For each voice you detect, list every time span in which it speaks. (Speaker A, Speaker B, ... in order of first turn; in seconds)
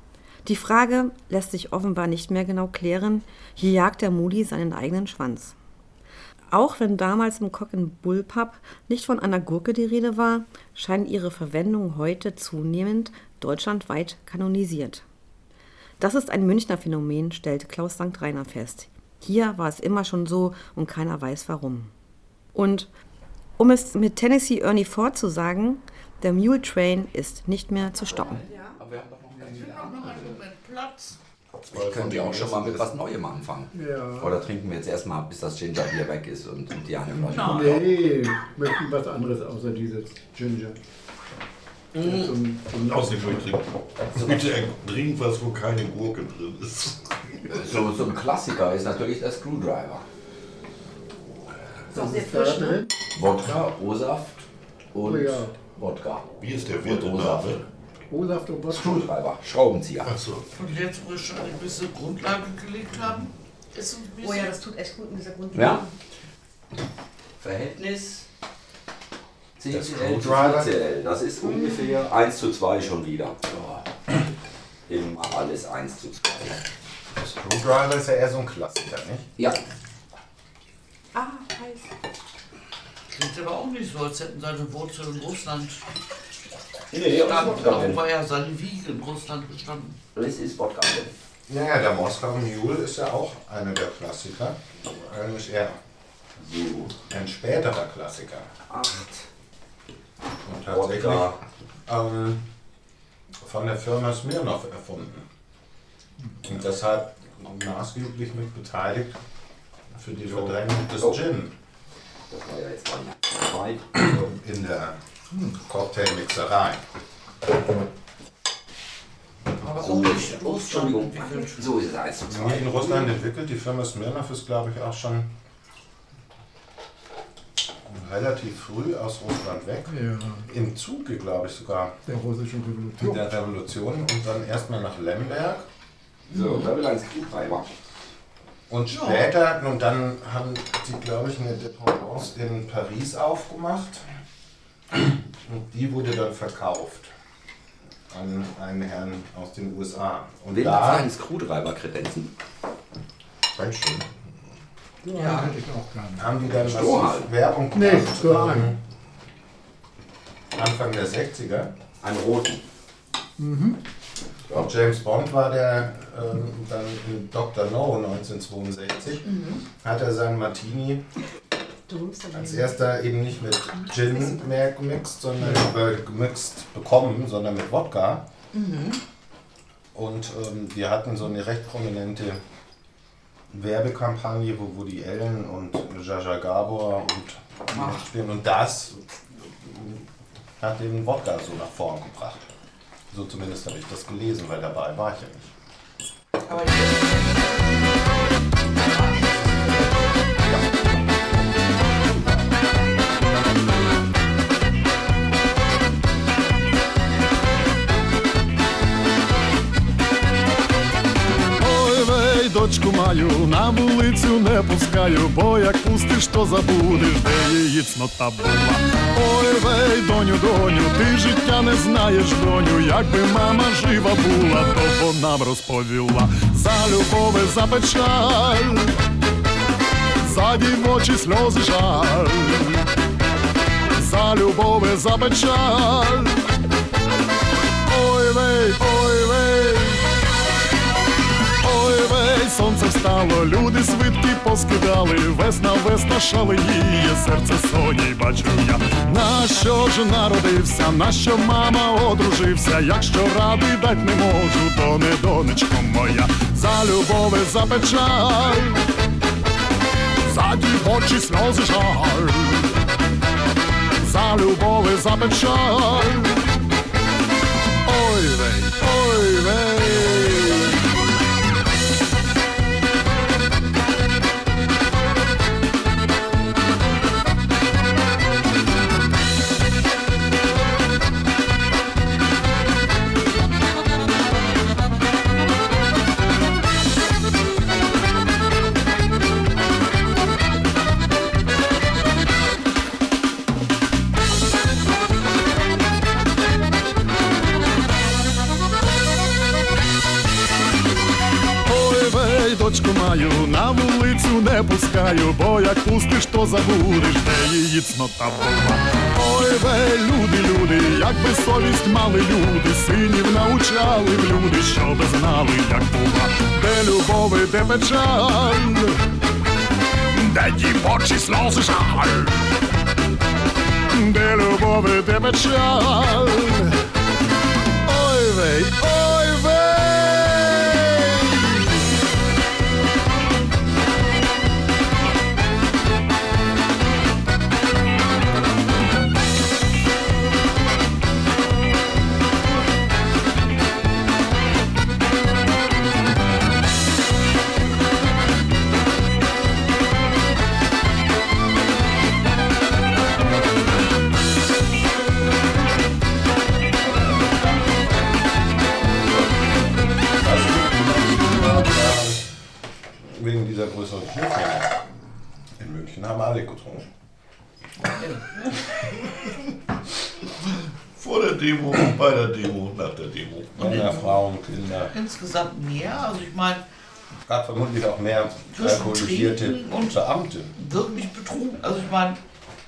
Speaker A: 0.4-5.5, 6.5-15.0, 16.0-21.9, 22.5-22.9, 23.6-28.5, 52.0-52.7, 64.2-65.9, 81.1-81.9, 171.9-172.4
Speaker B: 27.9-30.4, 31.7-37.8, 47.5-50.0, 53.1-56.3, 56.8-57.6, 58.7-60.1, 65.5-65.8, 67.4-68.2, 69.6-74.2, 74.9-76.6, 86.9-88.0, 90.1-91.1, 96.4-96.9, 98.7-99.2, 100.6-101.4, 112.3-114.0, 119.7-123.1, 136.3-137.8, 150.5-152.3, 156.4-157.3, 162.0-162.6, 187.7-188.0
Speaker C: 29.4-31.1, 60.5-64.6, 83.1-85.8, 87.0-90.0, 119.6-121.8, 138.9-139.3, 196.5-197.4, 198.8-199.2, 367.9-368.4, 373.7-374.1, 374.9-376.6, 378.5-380.0, 380.6-382.2
Speaker D: 31.7-32.9, 69.7-70.8, 77.1-79.3, 91.5-95.8, 97.1-98.5, 100.5-102.4, 103.4-105.3, 106.4-109.2, 110.0-111.5, 114.0-115.0, 115.5-116.8, 122.3-125.3, 127.9-132.0, 133.0-135.6, 138.7-144.0, 144.9-147.1, 148.1-151.1, 153.5-154.1, 156.2-158.8, 160.5-161.7, 164.5-171.1, 172.3-178.2, 179.9-182.4, 183.5-189.0, 189.6-190.0, 190.6-192.5, 193.1-195.5, 360.1-362.2, 363.0-364.7, 365.6-366.9, 373.5-374.9, 377.3-380.6
Speaker E: 31.9-32.8, 42.8-47.1, 56.4-57.6, 60.0-60.5, 110.0-110.3, 371.0-373.8
Speaker F: 33.7-34.4, 37.2-40.8, 42.0-43.5, 51.9-52.9, 55.0-55.5, 58.1-59.0, 129.9-130.4, 132.1-133.2, 155.1-156.2, 157.7-158.8, 163.4-163.8
Speaker G: 211.6-229.0, 230.2-232.9, 233.9-236.5, 237.9-240.1, 241.6-258.8, 260.2-262.7, 264.0-266.4, 267.8-270.8, 301.6-319.1, 320.1-322.4, 323.9-326.8, 327.9-331.8